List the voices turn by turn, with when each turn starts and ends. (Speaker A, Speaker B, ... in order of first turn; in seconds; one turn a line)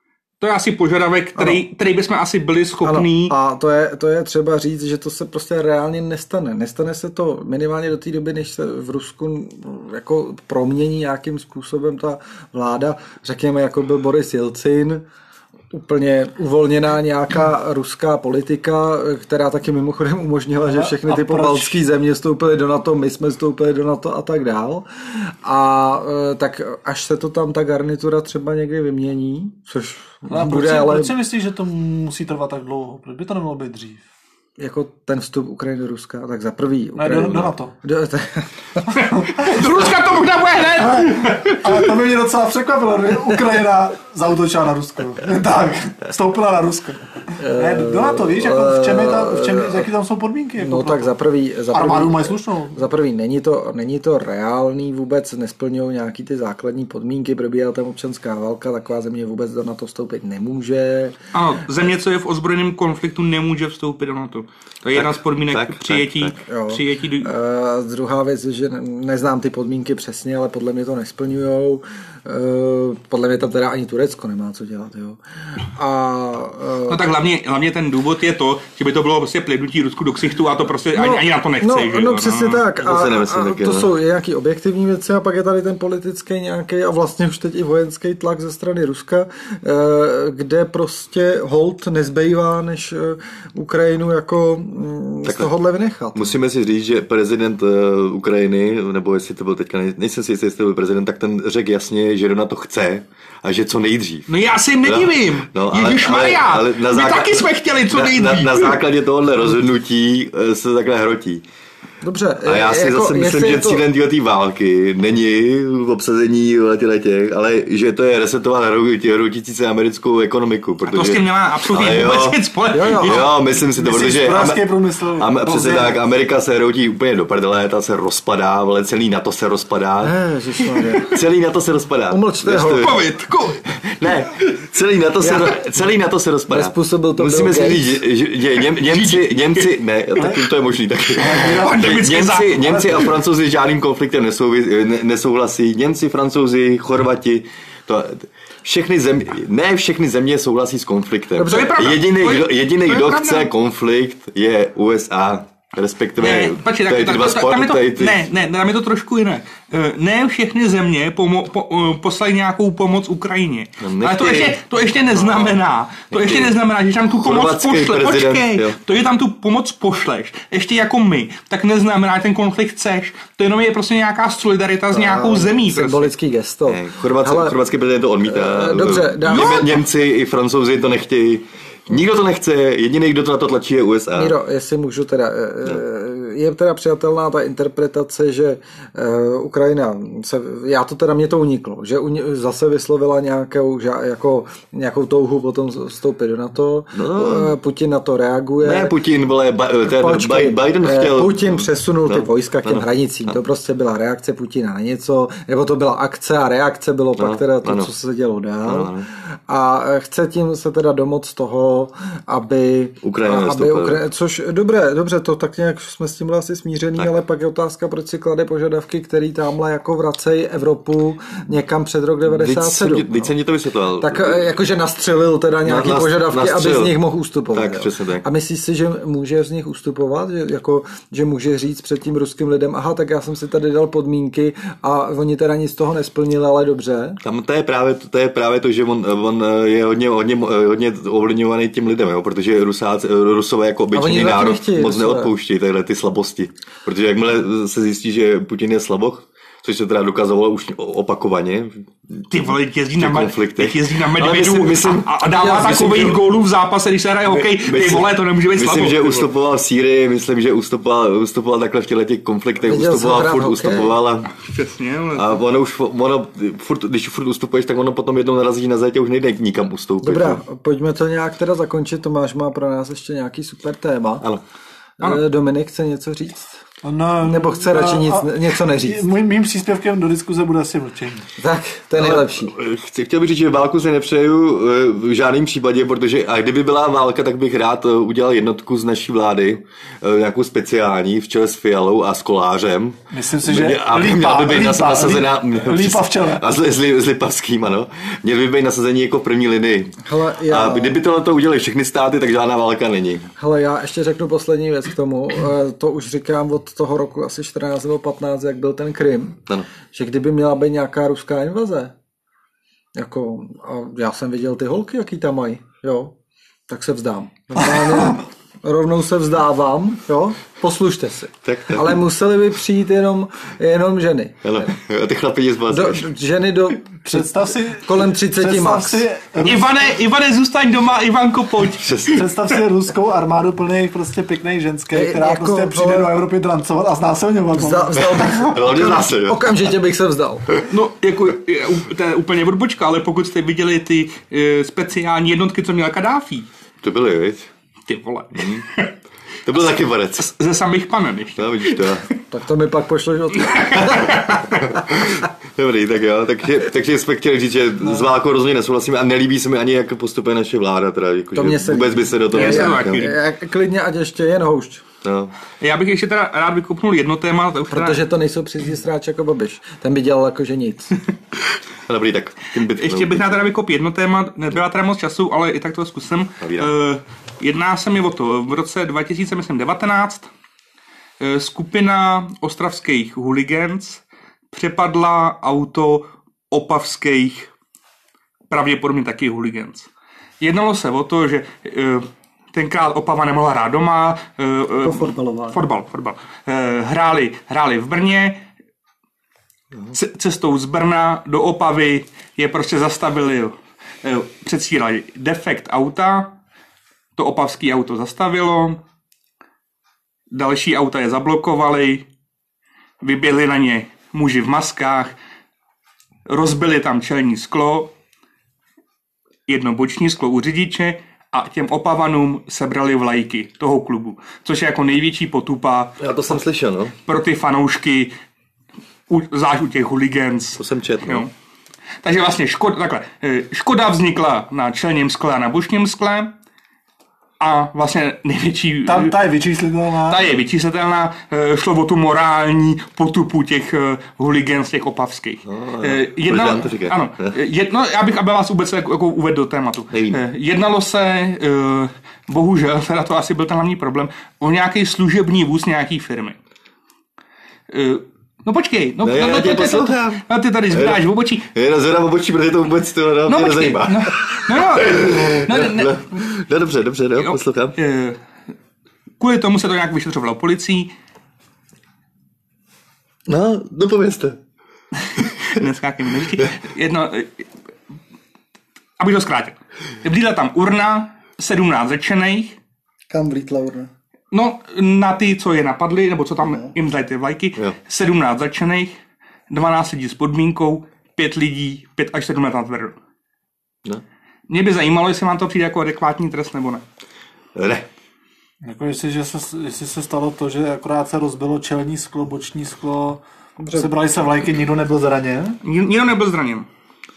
Speaker A: 0.4-3.4
Speaker B: 1.4-1.6
Speaker B: 2.8-15.0
Speaker B: 15.7-31.2
Speaker C: 20.6-21.8
Speaker C: 30.3-34.0
Speaker B: 34.6-38.9
Speaker C: 37.0-37.7
Speaker A: 39.0-41.9
Speaker C: 39.1-39.5
Speaker C: 40.8-51.1
Speaker B: 47.4-49.9
Speaker B: 50.6-61.2
Speaker C: 51.7-52.9
Speaker A: 61.3-67.3
Speaker D: 64.9-66.4
Speaker B: 66.5-77.1
Speaker A: 76.9-82.6
Speaker B: 80.9-96.3
Speaker D: 82.8-83.9
Speaker D: 95.2-95.5
Speaker D: 96.2-104.3
Speaker A: 104.3-108.8
Speaker D: 104.8-111.4
Speaker B: 112.0-113.8
Speaker D: 112.4-122.4
Speaker A: 120.8-123.3
Speaker B: 122.7-123.3
Speaker D: 122.9-130.2
Speaker C: 123.7-126.0
Speaker B: 130.0-131.2
Speaker D: 131.0-133.0
Speaker B: 132.1-133.0
Speaker A: 132.8-133.6
Speaker D: 133.7-158.2
Speaker B: 135.2-135.6
Speaker B: 136.5-138.0
Speaker A: 139.0-139.6
Speaker C: 141.2-143.2
Speaker A: 141.4-142.8
Speaker B: 151.4-151.7
Speaker A: 151.4-153.5
Speaker A: 156.2-176.1
Speaker D: 163.8-164.6
Speaker D: 165.2-165.6
Speaker D: 166.1-166.5
Speaker D: 167.2-168.8
Speaker B: 174.9-177.6
Speaker D: 176.7-184.4
Speaker B: 178.2-179.8
Speaker A: 179.3-179.8
Speaker B: 184.2-198.9
Speaker D: 196.9-197.5
Speaker D: 198.6-202.9
Speaker B: 199.9-223.3
Speaker D: 207.2-207.9
Speaker D: 208.7-209.1
Speaker D: 213.0-214.0
Speaker D: 222.3-224.5
Speaker B: 224.0-237.2
Speaker D: 225.7-227.0
Speaker D: 227.5-228.3
Speaker D: 237.2-252.3
Speaker B: 243.9-245.3
Speaker A: 252.3-259.3
Speaker D: 253.0-256.2
Speaker B: 255.3-256.2
Speaker D: 257.3-264.3
Speaker B: 262.6-264.0
Speaker A: 264.3-265.4
Speaker D: 265.1-270.4
Speaker B: 270.0-274.2
Speaker B: 275.0-276.5
Speaker C: 276.8-281.3
Speaker B: 277.2-279.1
Speaker B: 281.4-282.5
Speaker D: 282.0-303.3
Speaker C: 293.1-296.5
Speaker B: 300.0-301.0
Speaker B: 303.4-309.4
Speaker B: 309.9-311.9
Speaker B: 313.0-316.1
Speaker B: 316.7-324.7
Speaker D: 321.4-322.0
Speaker D: 324.4-326.1
Speaker B: 325.7-329.1
Speaker C: 327.1-329.7
Speaker A: 329.4-332.0
Speaker D: 331.8-332.3
Speaker C: 332.1-338.5
Speaker B: 334.9-336.1
Speaker B: 337.5-340.4
Speaker D: 338.3-339.5
Speaker A: 340.7-346.5
Speaker D: 346.8-347.5
Speaker A: 347.9-348.9
Speaker D: 348.4-348.6
Speaker D: 349.4-350.3
Speaker A: 350.2-352.0
Speaker D: 351.4-352.1
Speaker B: 352.3-354.3
Speaker A: 353.4-354.6
Speaker D: 354.6-363.1
Speaker B: 361.4-364.8
Speaker A: 362.3-363.2
Speaker D: 365.0-365.3
Speaker A: 365.6-368.0
Speaker B: 367.7-370.9
Speaker D: 371.9-373.4
Speaker A: 372.7-380.3
Speaker D: 376.4-376.7
Speaker A: 381.2-387.5
Speaker A: 388.5-389.9
Speaker A: 390.4-398.4
Speaker B: 394.8-395.6
Speaker A: 399.9-406.4
Speaker A: 407.2-408.8
Speaker A: 410.3-412.0
Speaker A: 413.0-415.1
Speaker A: 416.3-417.9
Speaker A: 419.5-426.0
Speaker D: 426.0-426.9
Speaker A: 427.1-428.1
Speaker A: 429.1-431.3
Speaker D: 430.6-431.3
Speaker A: 432.0-436.3
Speaker A: 437.4-439.2
Speaker C: 438.9-440.3
Speaker A: 440.1-456.4
Speaker D: 445.4-447.4
Speaker D: 449.9-450.2
Speaker A: 457.7-461.5
Speaker D: 459.0-467.8
Speaker A: 463.3-466.0
Speaker A: 467.2-468.2
Speaker A: 469.2-470.9
Speaker D: 473.3-474.4
Speaker A: 475.2-477.5
Speaker A: 479.0-482.6
Speaker B: 483.1-483.9
Speaker A: 484.3-488.9
Speaker A: 489.5-493.0
Speaker A: 494.5-496.8
Speaker D: 497.6-497.9
Speaker C: 498.6-505.6
Speaker B: 503.6-503.9
Speaker A: 505.6-506.7